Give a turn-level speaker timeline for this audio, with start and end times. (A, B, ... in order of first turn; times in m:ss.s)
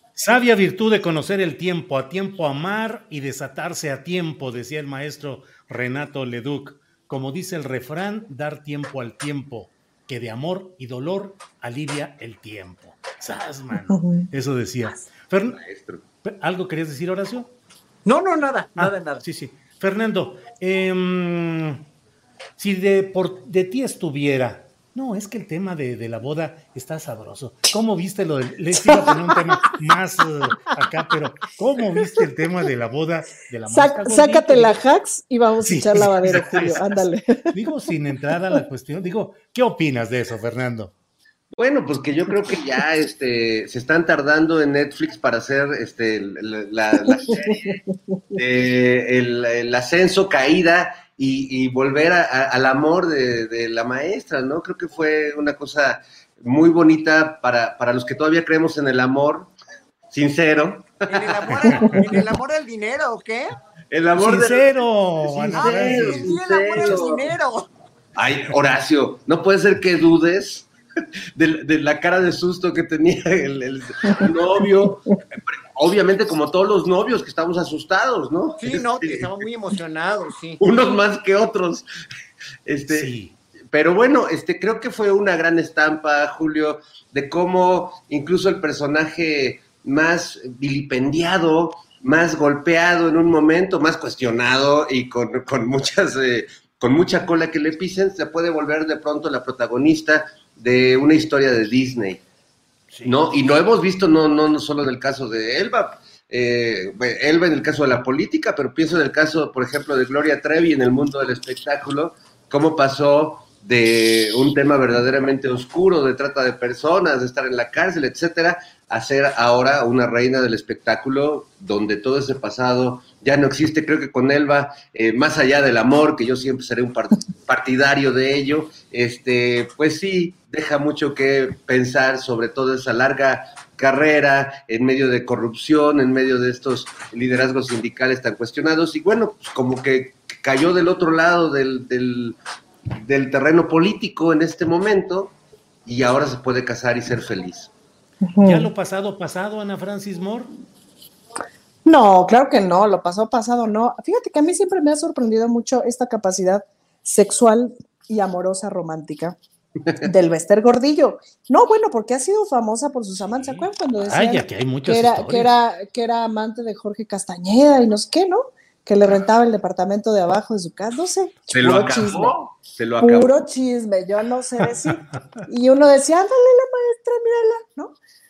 0:00.2-0:15.6 A
0:13.9-0:14.3 B
0:15.6-0:16.0 C
0:16.2-0:17.5 A
0:18.0-0:19.2 D
0:18.8-0:21.8 A
0:22.6-0:34.8 A
0:28.9-0:29.4 B
0:33.7-0:37.5 B
0:35.6-0:36.8 A
0:37.5-0:40.9 A
0:41.6-0:47.8 C
0:47.1-0:48.1 B
0:48.3-0:59.5 C
1:00.1-1:02.0 C
1:01.1-1:03.5 D
1:03.9-1:04.7 C
1:04.2-1:06.3 A
1:05.3-1:07.3 C
1:05.5-1:07.7 D
1:08.2-1:10.7 C
1:11.4-1:19.3 C
1:18.6-1:20.6 D
1:20.6-1:21.9 C
1:22.6-1:23.1 C
1:22.9-1:23.4 A
1:23.7-1:42.2 C
1:42.9-1:43.2 A
1:43.0-2:22.4 C
2:23.0-2:25.3 C
2:25.9-2:27.7 C
2:28.2-2:28.7 B
2:28.4-2:30.5 A
2:31.8-2:39.4 B
2:40.0-2:52.3 B
2:43.2-2:45.5 A
2:51.5-2:53.3 C
2:53.0-2:58.0 B